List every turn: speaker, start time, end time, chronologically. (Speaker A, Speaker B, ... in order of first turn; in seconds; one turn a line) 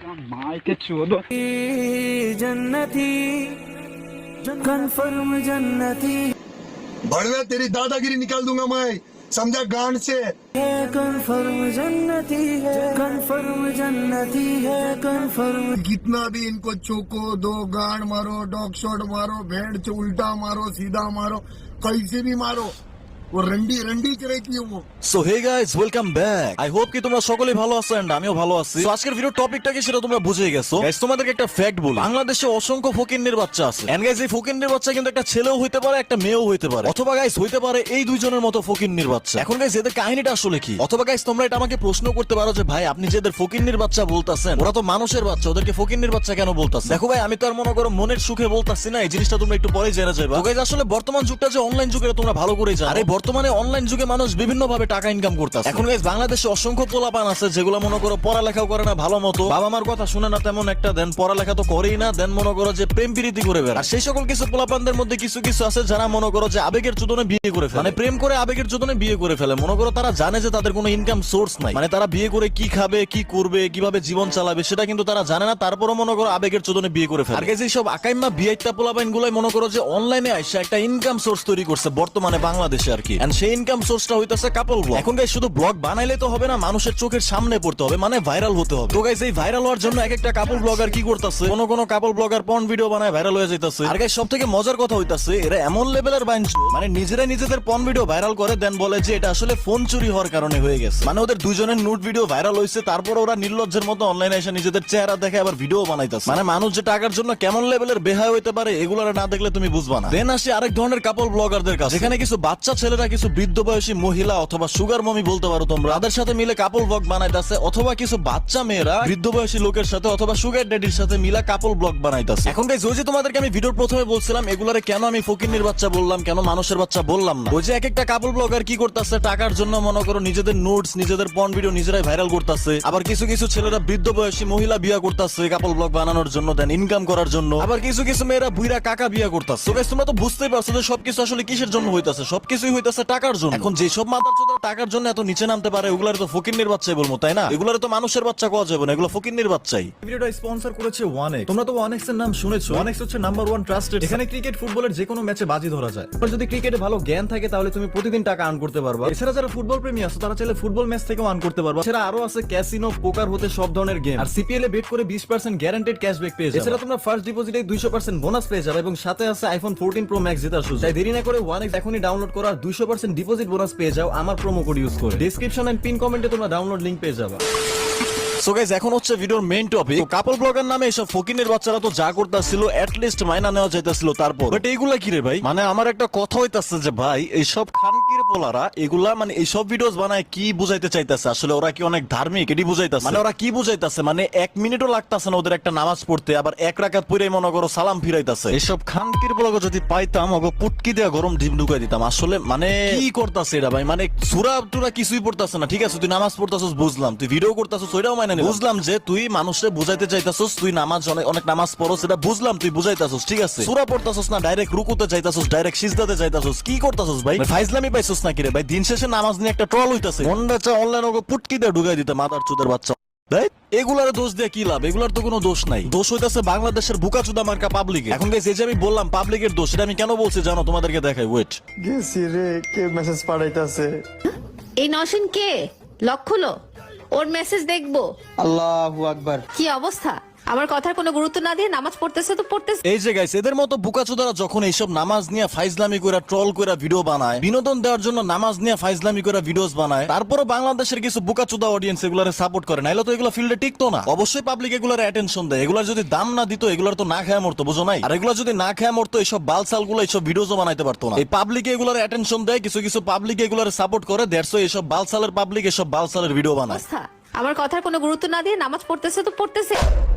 Speaker A: 1.3-3.7
Speaker A: 4.4-6.3
Speaker B: 7.0-10.3
Speaker A: 10.6-15.8
Speaker B: 15.8-22.7
Speaker B: 23.3-24.8
Speaker C: 25.0-177.4
Speaker C: 178.4-231.6
Speaker D: 231.8-233.9
Speaker E: 234.8-236.6
Speaker E: 237.1-238.1
Speaker D: 238.4-239.4
Speaker E: 239.6-242.8
Speaker C: 242.9-266.8
Speaker E: 266.7-269.8